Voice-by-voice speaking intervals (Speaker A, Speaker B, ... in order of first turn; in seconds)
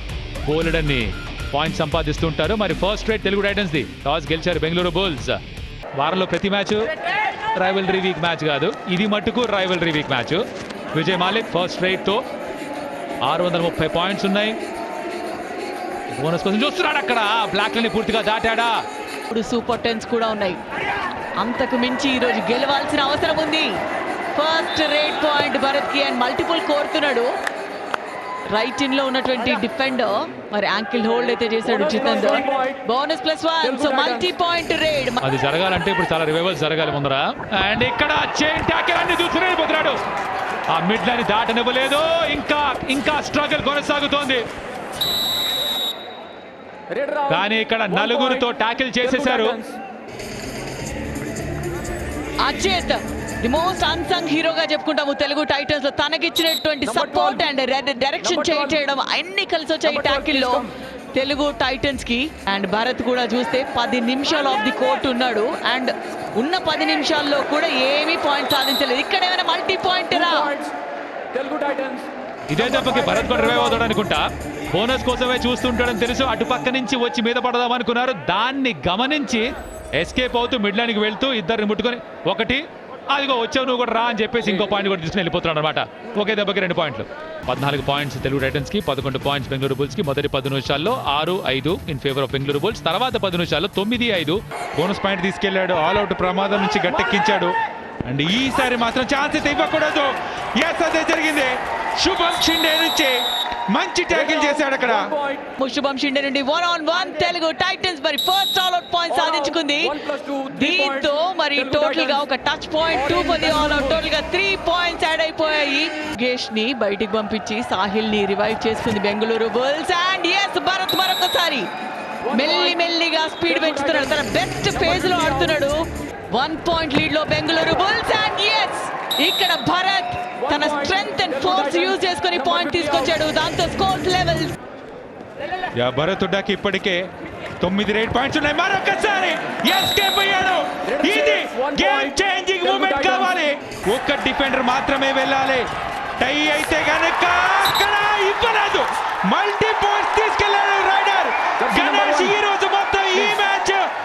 Speaker A: 0.5-5.4, 6.0-7.0, 7.5-10.4, 10.9-12.2, 13.2-14.6, 16.2-18.8, 35.2-40.0, 40.7-44.5, 47.3-49.6, 72.5-79.5, 80.0-94.9
Speaker B: 19.3-20.6, 21.4-23.7, 24.4-27.3, 28.5-35.2, 52.4-70.5, 105.6-121.7, 122.2-134.6
Speaker C: 46.9-47.3, 49.2-49.7, 70.4-70.7, 71.3-72.1, 104.2-105.4, 110.0-110.8, 113.4-113.8, 141.0-142.1, 142.7-143.3, 151.7-152.3
Speaker D: 94.8-97.6, 98.1-103.2, 103.7-105.1, 135.8-137.1, 137.6-145.7, 146.2-153.8